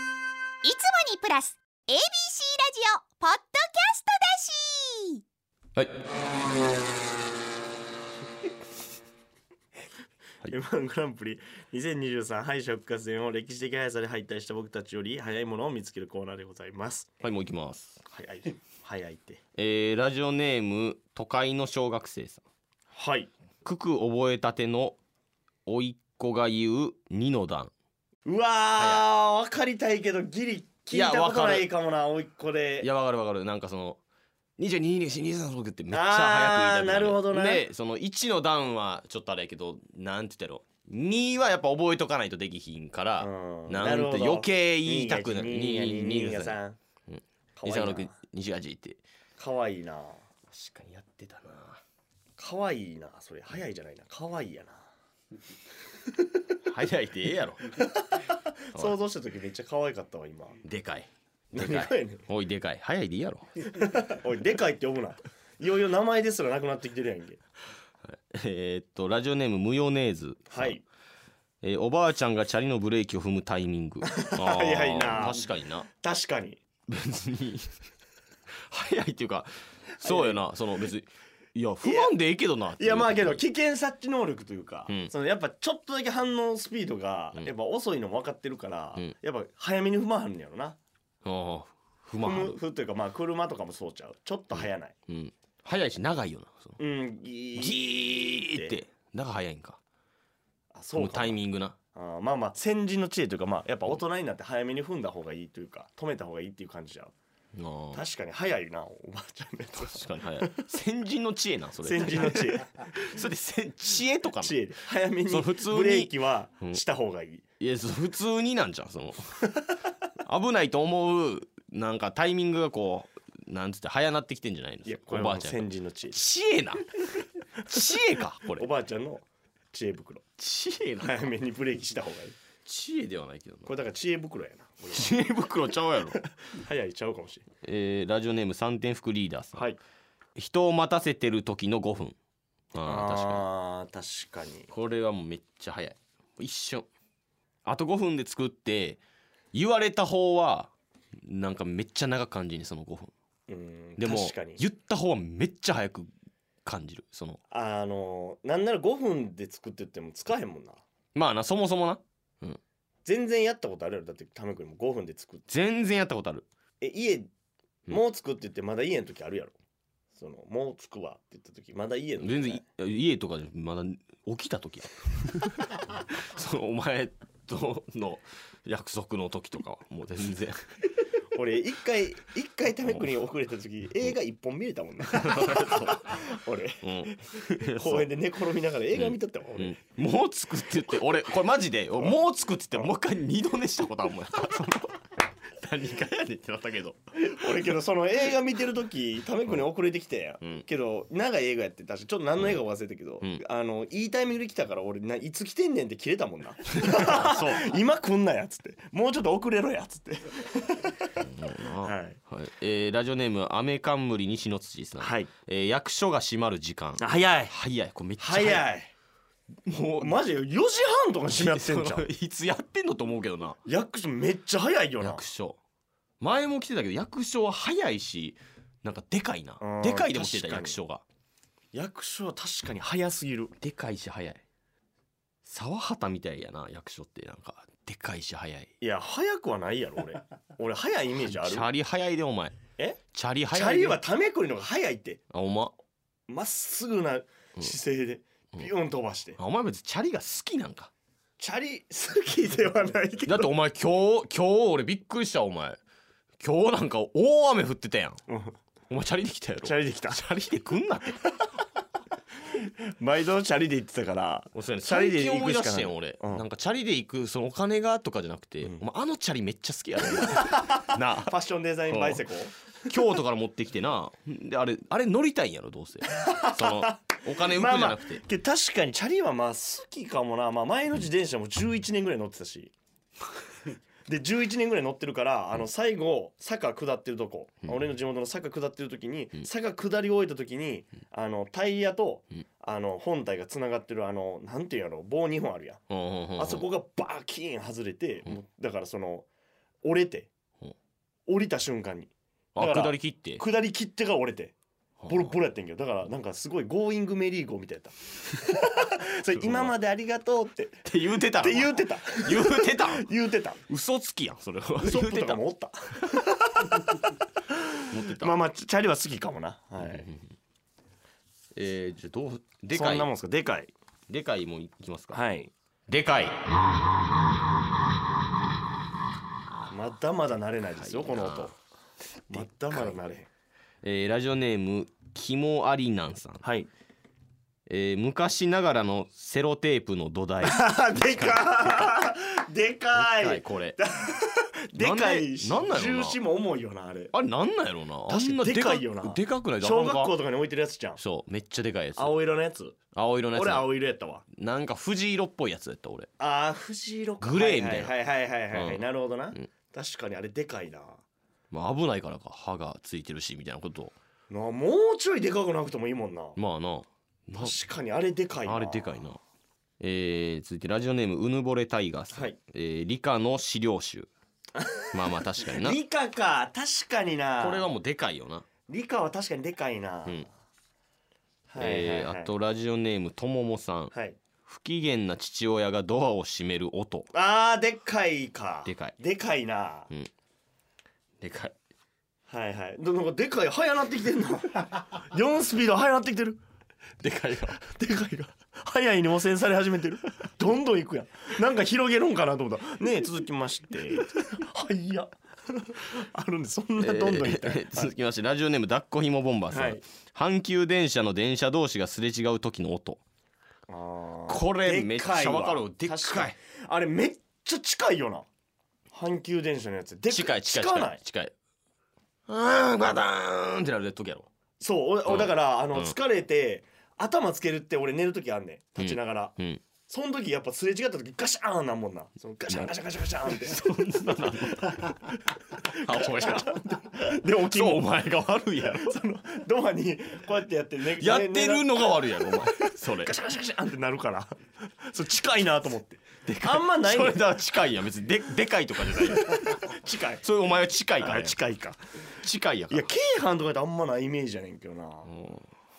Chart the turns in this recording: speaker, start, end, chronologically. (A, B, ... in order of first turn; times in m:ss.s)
0:00.6-0:05.2 A
0:10.4-0:17.1 B
0:17.2-0:18.0 C
0:18.1-0:19.4 B
0:19.6-0:22.4 C
0:22.9-0:23.3 B
0:23.6-0:25.0 C
0:25.7-0:27.7 C
0:28.2-0:32.9 B
0:28.8-0:29.1 C
0:30.9-0:31.7 C
0:32.8-0:34.0 C
0:34.6-0:49.0 C
0:35.9-0:37.7 B
0:43.2-0:46.8 B
0:47.6-0:48.1 B
0:49.4-0:50.2 B
0:50.5-0:51.8 C
0:52.4-0:54.8 B
0:56.6-0:57.9 C
0:57.7-1:00.6 B
1:00.6-1:03.7 C
1:01.5-1:02.2 B
1:03.6-1:07.4 B
1:08.0-1:10.8 C
1:10.5-1:10.8 B
1:11.6-1:15.9 C
1:14.0-1:16.6 B
1:16.9-1:17.8 C
1:18.7-1:23.4 C
1:20.0-1:20.4 B
1:21.8-1:22.1 B
1:22.8-1:30.8 B
1:24.9-1:25.1 C
1:31.2-1:32.6 C
1:32.2-1:34.9 B
1:34.5-1:36.8 C
1:36.8-1:38.8 B
1:37.6-1:39.8 C
1:40.7-1:41.4 B
1:40.9-1:41.8 C
1:41.9-1:47.1 B
1:47.6-1:48.0 C
1:47.9-1:50.7 B
1:49.8-1:54.7 C
1:51.8-1:52.9 B
1:54.4-1:57.4 B
1:55.3-1:56.8 C
1:57.6-2:07.0 C
2:04.8-2:06.2 B
2:07.7-2:08.0 B
2:07.7-2:08.7 C
2:08.6-2:10.2 B
2:10.4-2:11.3 C
2:11.0-2:12.4 B
2:12.7-2:13.7 C
2:13.7-2:15.1 B
2:14.9-2:16.2 C
2:16.4-2:17.4 B
2:17.6-2:19.7 C
2:19.5-2:19.8 B
2:20.4-2:22.2 C
2:22.7-2:23.4 C
2:22.8-2:24.7 B
2:24.7-2:26.9 C
2:27.6-2:29.0 C
2:29.5-2:30.7 C
2:31.2-2:33.1 C
2:33.5-2:34.6 B
2:34.0-2:36.1 C
2:36.6-2:37.4 C
2:37.5-2:40.8 B
2:41.2-2:42.6 C
2:43.0-2:45.5 B
2:45.5-2:46.5 C
2:46.8-2:47.3 B
2:47.9-2:49.6 B
2:50.2-2:52.6 B
2:52.2-3:00.6 C
3:01.3-3:09.8 B
3:02.9-3:03.1 C
3:05.1-3:08.2 C
3:08.9-3:17.7 C
3:17.2-3:32.2 B
3:20.4-3:20.7 C
3:26.7-3:27.7 C
3:31.2-3:38.7 C
3:35.0-3:35.3 B
3:37.0-3:37.6 B
3:38.2-3:38.9 B
3:39.7-3:40.2 C
3:40.0-3:42.1 B
3:41.3-3:43.6 C
3:43.6-3:45.2 B
3:45.0-3:45.6 C
3:46.2-3:51.0 C
3:49.6-3:50.8 B
3:51.7-3:53.5 B
3:53.6-3:54.4 C
3:55.4-3:58.7 C
3:58.8-4:01.7 B
4:01.1-4:02.6 C
4:03.1-4:04.0 C
4:03.5-4:05.2 B
4:05.3-4:05.8 C
4:06.3-4:09.4 B
4:09.4-4:10.9 C
4:11.4-4:13.5 B
4:13.3-4:15.8 C
4:16.4-4:18.2 C
4:18.3-4:18.6 B
4:18.9-4:21.3 C
4:19.6-4:20.2 B
4:22.5-4:26.4 B
4:24.5-4:32.2 C
4:30.1-4:33.0 B
4:32.9-4:38.2 C
4:36.1-4:42.7 B
4:44.1-4:55.8 B
4:55.9-4:56.7 C
4:56.4-4:59.3 B
4:59.8-5:00.3 B
5:01.3-5:04.6 B
5:02.6-5:03.4 C
5:05.0-5:05.3 C
5:05.1-5:13.6 B
5:09.3-5:09.8 C
5:10.8-5:13.1 C
5:13.7-5:15.4 C
5:14.8-5:20.1 B
5:17.9-5:18.4 C
5:19.8-5:20.3 C
5:21.6-5:23.1 C
5:22.7-5:23.7 B
5:24.1-5:25.2 C
5:25.1-5:25.5 B
5:25.9-5:26.4 C
5:29.7-5:31.6 B
5:30.8-5:31.5 C
5:32.3-5:33.0 C
5:32.3-5:33.3 B
5:33.8-5:36.4 C
5:36.4-5:36.7 B
5:37.7-5:42.0 C
5:40.4-5:47.1 B
5:42.9-5:43.8 C
5:44.8-5:46.2 C
5:47.1-5:50.2 C
5:48.1-5:51.0 B
5:51.0-5:52.2 C
5:52.0-5:52.8 B
5:52.9-5:53.8 C
5:53.3-5:54.2 B
5:54.4-5:56.1 C
5:56.2-6:01.0 B
5:57.2-5:58.0 C
5:58.5-5:59.5 C
6:01.5-6:03.9 C
6:04.3-6:06.4 B
6:06.4-6:07.6 C
6:07.4-6:09.1 B
6:08.4-6:09.2 C
6:09.8-6:14.1 C
6:12.1-6:12.4 B
6:14.6-6:17.7 B
6:14.9-6:15.8 C
6:17.4-6:18.5 C
6:18.7-6:20.3 B
6:21.5-6:22.3 B
6:21.6-6:23.9 C
6:23.9-6:24.2 B
6:24.5-6:27.1 C
6:27.1-6:29.9 B
6:28.6-6:29.0 C
6:31.2-6:31.5 C
6:32.3-6:36.4 B
6:37.0-6:37.6 C
6:37.5-6:47.9 B
6:46.8-6:53.0 C
6:49.5-6:49.8 B
6:53.7-6:58.3 B
6:54.3-6:56.4 C
6:58.9-7:01.0 B
7:00.1-7:01.3 C
7:02.3-7:04.3 C
7:04.6-7:09.4 B
7:05.0-7:06.0 C
7:08.8-7:09.6 C
7:09.9-7:13.7 B
7:12.5-7:15.1 C
7:14.4-7:17.9 B
7:15.6-7:19.0 C
7:18.6-7:27.3 B
7:20.9-7:23.2 C
7:26.3-7:31.4 C
7:29.0-7:30.2 B
7:31.0-7:32.0 B
7:32.1-7:32.9 C
7:32.7-7:35.1 B
7:35.1-7:35.5 C